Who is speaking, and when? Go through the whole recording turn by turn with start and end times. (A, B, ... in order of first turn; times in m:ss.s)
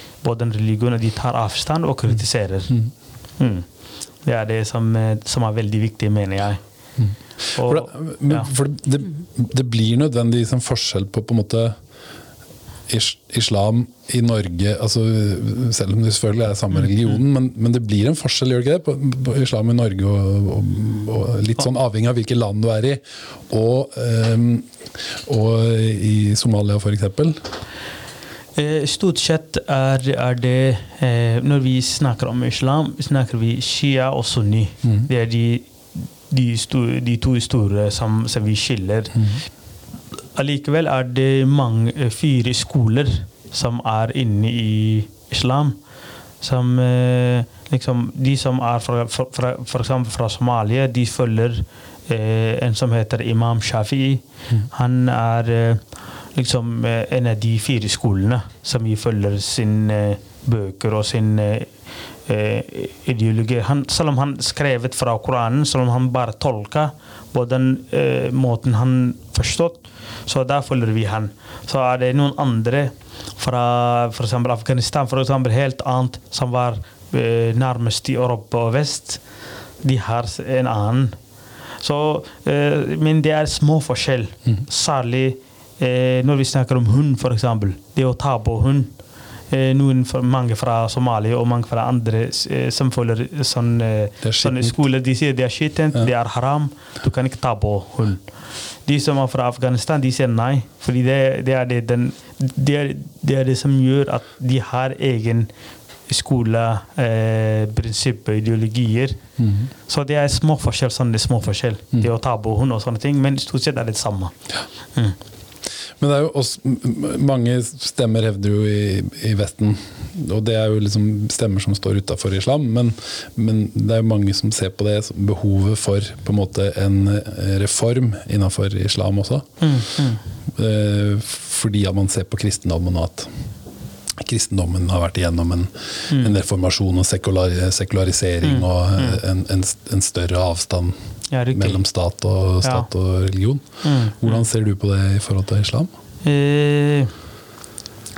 0:00.2-0:02.7 A
0:03.4-0:03.6 A
0:04.2-0:06.6 A
0:07.0-0:11.8 B
0:07.6-0:08.5 A
0:12.9-0:27.4 B
0:16.8-0:17.0 A
0:28.6-0:39.4 A
0:39.1-0:39.4 B
0:40.4-0:45.8 A
0:46.4-1:19.2 A
1:19.8-1:21.2 A
1:21.8-1:28.9 A
1:29.5-1:38.2 A
1:34.2-1:34.8 B
1:38.8-1:45.5 A
1:46.1-1:49.2 A
1:49.4-1:49.7 B
1:49.9-1:54.3 A
1:56.0-2:09.6 B
2:09.6-2:10.2 A
2:10.5-2:13.3 B
2:14.2-2:20.9 B
2:16.1-2:16.4 A
2:18.4-2:19.2 A
2:21.3-2:21.8 A
2:21.5-2:25.9 B
2:22.6-2:22.9 A
2:23.8-2:24.4 A
2:26.2-2:27.1 A